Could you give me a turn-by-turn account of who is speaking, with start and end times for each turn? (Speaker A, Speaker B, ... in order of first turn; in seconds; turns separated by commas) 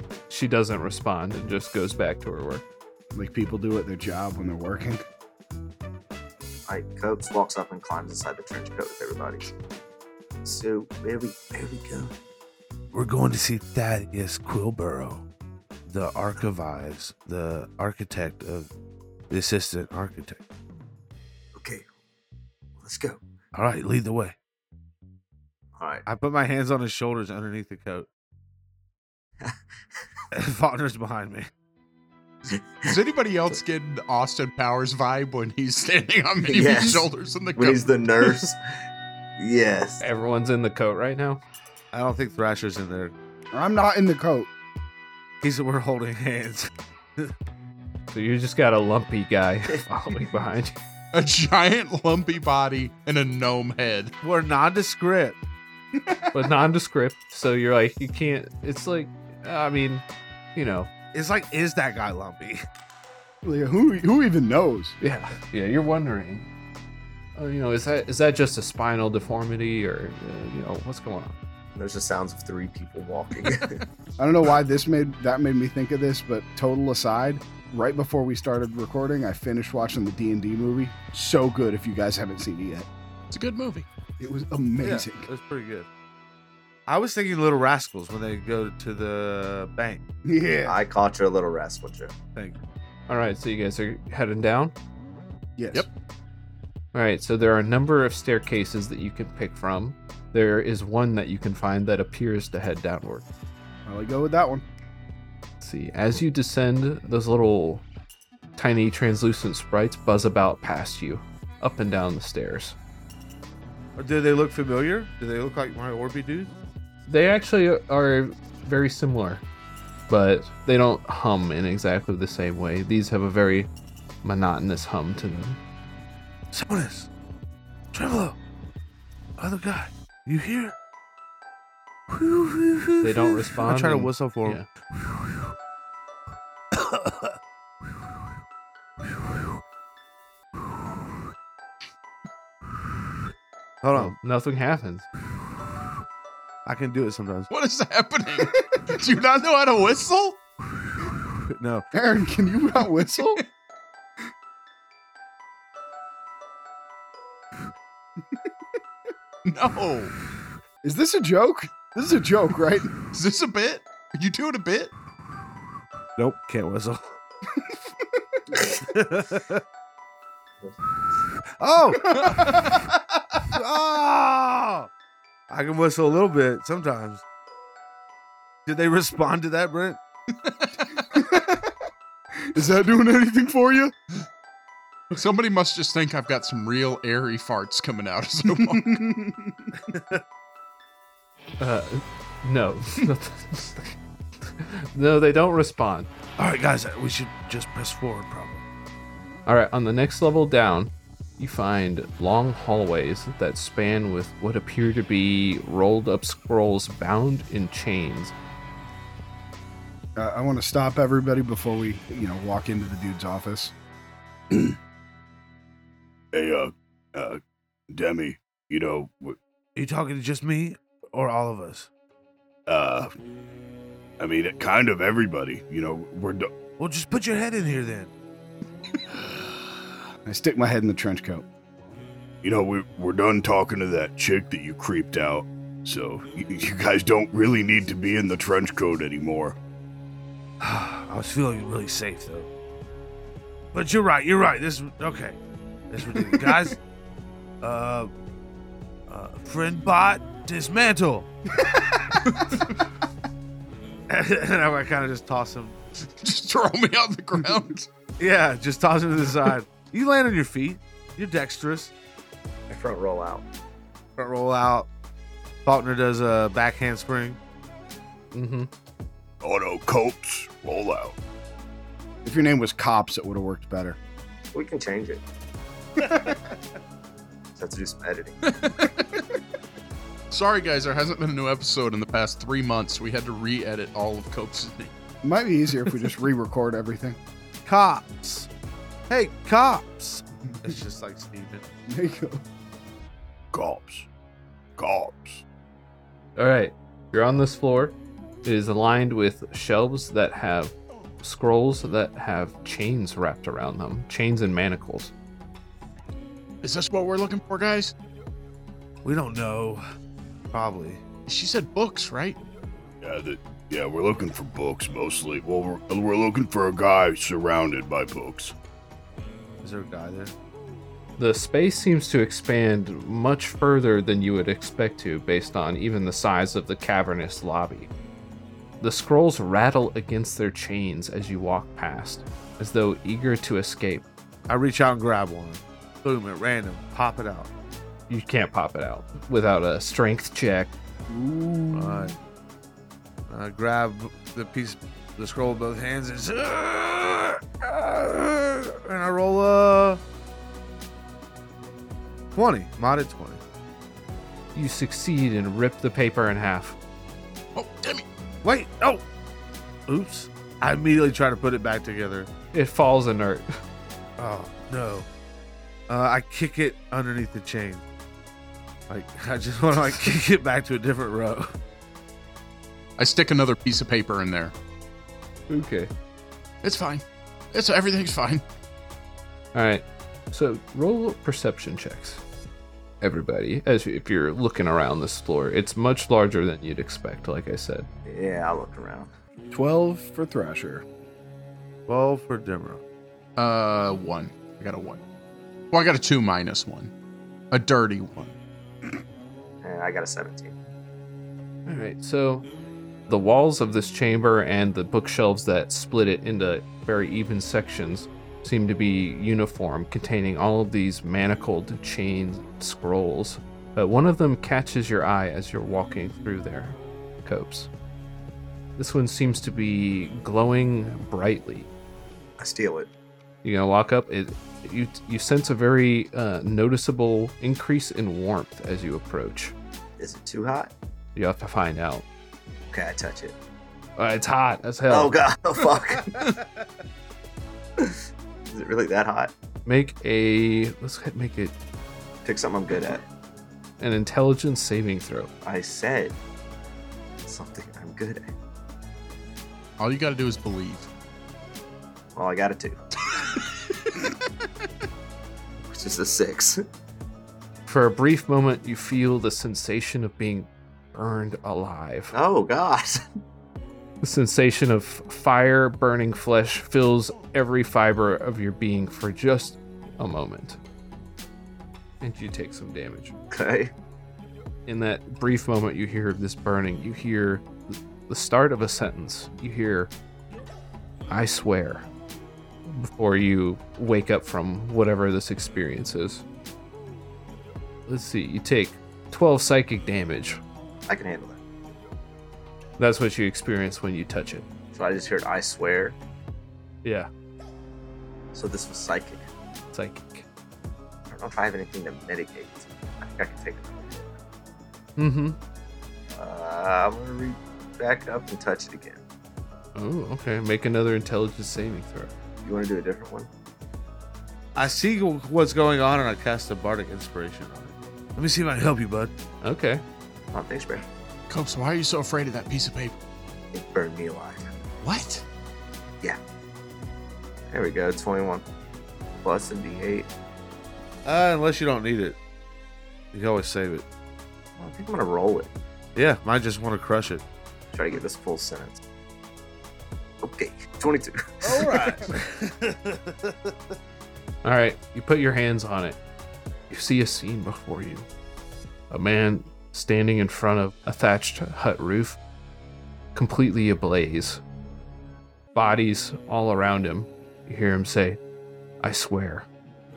Speaker A: 0.3-2.6, Speaker B: 3.1-5.0, Speaker C: 6.7-9.5, Speaker C: 10.4-12.1, Speaker D: 12.9-15.2, Speaker D: 15.9-18.7, Speaker D: 19.3-20.4, Speaker C: 21.6-21.9, Speaker C: 22.8-23.2, Speaker D: 23.5-24.4, Speaker C: 25.8-26.1, Speaker D: 26.1-28.1, Speaker D: 30.3-31.5, Speaker E: 32.8-38.3, Speaker C: 36.5-38.6, Speaker C: 39.4-40.0, Speaker A: 40.0-41.4, Speaker D: 41.9-43.1, Speaker B: 43.5-44.5, Speaker D: 45.4-47.3, Speaker A: 48.1-50.8, Speaker E: 51.1-54.1, Speaker D: 54.2-55.4, Speaker A: 56.3-60.0, Speaker A: 60.5-60.9, Speaker D: 61.1-62.6, Speaker B: 63.4-65.0, Speaker A: 65.0-66.5, Speaker A: 67.4-71.4, Speaker C: 71.8-73.8, Speaker B: 74.2-82.9, Speaker E: 83.3-83.9, Speaker B: 84.2-85.3, Speaker D: 84.8-85.9, Speaker D: 86.9-90.0, Speaker B: 90.3-90.8, Speaker C: 90.7-92.2, Speaker A: 93.1-94.7, Speaker B: 95.6-95.9, Speaker A: 96.9-103.3, Speaker B: 103.9-104.7, Speaker A: 105.6-107.8, Speaker A: 108.6-112.8, Speaker D: 114.0-116.5, Speaker A: 117.1-119.4, Speaker A: 120.1-123.7, Speaker A: 124.2-125.6, Speaker D: 126.5-127.1, Speaker D: 127.9-128.4, Speaker D: 129.4-130.8, Speaker D: 132.1-134.6, Speaker A: 133.0-134.7, Speaker D: 136.7-137.3, Speaker D: 143.8-144.2, Speaker A: 143.9-145.1, Speaker D: 146.7-147.5, Speaker E: 147.5-150.4, Speaker D: 151.5-151.9, Speaker B: 151.9-153.4, Speaker E: 159.4-160.2, Speaker B: 160.8-162.9, Speaker E: 163.1-164.9, Speaker D: 166.2-167.1, Speaker B: 167.6-168.4, Speaker D: 168.8-169.6, Speaker D: 171.6-172.7, Speaker B: 172.0-172.8, Speaker D: 173.4-174.9, Speaker D: 175.5-177.2, Speaker D: 178.7-180.0, Speaker E: 180.5-180.9, Speaker B: 181.1-181.7, Speaker B: 182.5-183.9, Speaker E: 185.1-189.0, Speaker B: 188.5-189.8, Speaker D: 189.9-190.2, Speaker A: 191.6-196.1, Speaker D: 196.4-198.6, Speaker A: 199.5-208.3, Speaker B: 210.2-213.7, Speaker F: 214.5-214.8, Speaker F: 216.3-219.4, Speaker D: 219.8-221.9, Speaker F: 222.7-223.1, Speaker F: 224.2-226.5, Speaker D: 226.8-228.1, Speaker B: 230.3-231.5, Speaker F: 232.4-239.6, Speaker D: 240.6-242.5, Speaker D: 243.7-245.4, Speaker D: 245.9-246.8, Speaker D: 247.6-248.1, Speaker D: 249.1-251.3, Speaker B: 251.7-252.2, Speaker E: 252.3-252.6, Speaker D: 254.1-255.8, Speaker E: 256.1-257.9, Speaker D: 258.2-261.9, Speaker C: 262.7-263.4, Speaker D: 264.2-264.9, Speaker D: 265.6-267.4, Speaker A: 268.3-268.7, Speaker F: 269.4-271.2, Speaker B: 272.2-274.0, Speaker C: 274.5-275.2, Speaker B: 276.0-276.3, Speaker C: 277.6-278.4, Speaker E: 278.5-279.0, Speaker E: 280.3-284.9, Speaker B: 285.2-287.2, Speaker D: 287.7-288.5, Speaker D: 289.1-291.6, Speaker B: 291.9-292.4, Speaker F: 293.5-294.1, Speaker F: 294.8-295.4, Speaker A: 296.4-305.1, Speaker E: 306.6-307.9, Speaker D: 309.0-309.8, Speaker D: 310.5-311.0, Speaker E: 311.3-312.4, Speaker F: 313.0-318.5, Speaker D: 319.6-320.3, Speaker A: 321.2-327.9, Speaker A: 328.8-334.1, Speaker D: 334.5-337.5, Speaker A: 338.1-340.7, Speaker B: 341.1-342.1, Speaker D: 341.7-342.1, Speaker D: 343.3-350.0, Speaker D: 352.4-353.4, Speaker A: 354.6-356.8, Speaker E: 357.6-358.1, Speaker D: 358.4-359.0, Speaker D: 359.9-362.3, Speaker A: 362.5-363.5, Speaker D: 364.2-365.1, Speaker D: 365.9-367.9, Speaker D: 368.9-371.5, Speaker E: 373.0-374.5, Speaker A: 375.5-375.9, Speaker E: 376.6-378.4, Speaker A: 379.5-382.2, Speaker A: 383.0-387.9, Speaker C: 388.1-389.1, Speaker B: 389.5-390.8, Speaker D: 391.9-392.8, Speaker E: 393.4-395.0, Speaker E: 395.7-396.9, Speaker E: 397.5-398.4, Speaker C: 399.6-400.6, Speaker A: 401.7-402.5, Speaker A: 403.1-417.7, Speaker A: 418.8-421.7, Speaker C: 422.4-422.9, Speaker A: 423.4-429.5, Speaker C: 430.0-430.7, Speaker A: 431.2-432.1, Speaker C: 432.7-433.4, Speaker A: 434.0-435.2, Speaker C: 434.9-436.2, Speaker D: 436.2-436.6, Speaker C: 438.5-439.3, Speaker A: 439.7-441.5, Speaker C: 442.2-443.1, Speaker A: 443.8-445.3, Speaker C: 445.4-446.2, Speaker C: 447.3-448.3, Speaker E: 449.8-450.9, Speaker C: 452.2-452.8, Speaker C: 455.7-456.6, Speaker A: 457.7-462.1, Speaker C: 462.1-463.0, Speaker A: 464.0-470.6, Speaker A: 472.0-473.1, Speaker C: 473.3-473.7, Speaker A: 474.7-479.9, Speaker A: 481.1-481.9, Speaker A: 482.7-486.2, Speaker A: 487.9-490.4, Speaker C: 490.9-491.4, Speaker A: 492.8-494.5, Speaker C: 494.7-496.0, Speaker A: 496.8-497.1, Speaker C: 498.3-499.3, Speaker A: 499.7-500.3, Speaker C: 501.1-504.2, Speaker A: 505.0-505.4, Speaker C: 506.1-509.0, Speaker A: 509.8-512.1, Speaker C: 512.4-513.3, Speaker D: 514.5-519.1, Speaker A: 519.4-519.8, Speaker C: 520.3-520.9, Speaker E: 521.3-523.0, Speaker C: 523.5-524.5, Speaker E: 524.8-525.3, Speaker C: 527.5-528.5, Speaker C: 529.2-530.1, Speaker D: 531.0-532.2, Speaker D: 533.1-533.9, Speaker C: 534.6-535.5, Speaker D: 536.0-537.2, Speaker C: 537.7-538.8, Speaker C: 540.2-542.1, Speaker D: 541.4-543.5, Speaker A: 544.4-546.0, Speaker A: 546.7-548.1, Speaker A: 548.9-552.2, Speaker A: 553.1-554.4, Speaker A: 555.5-558.2, Speaker A: 558.8-559.5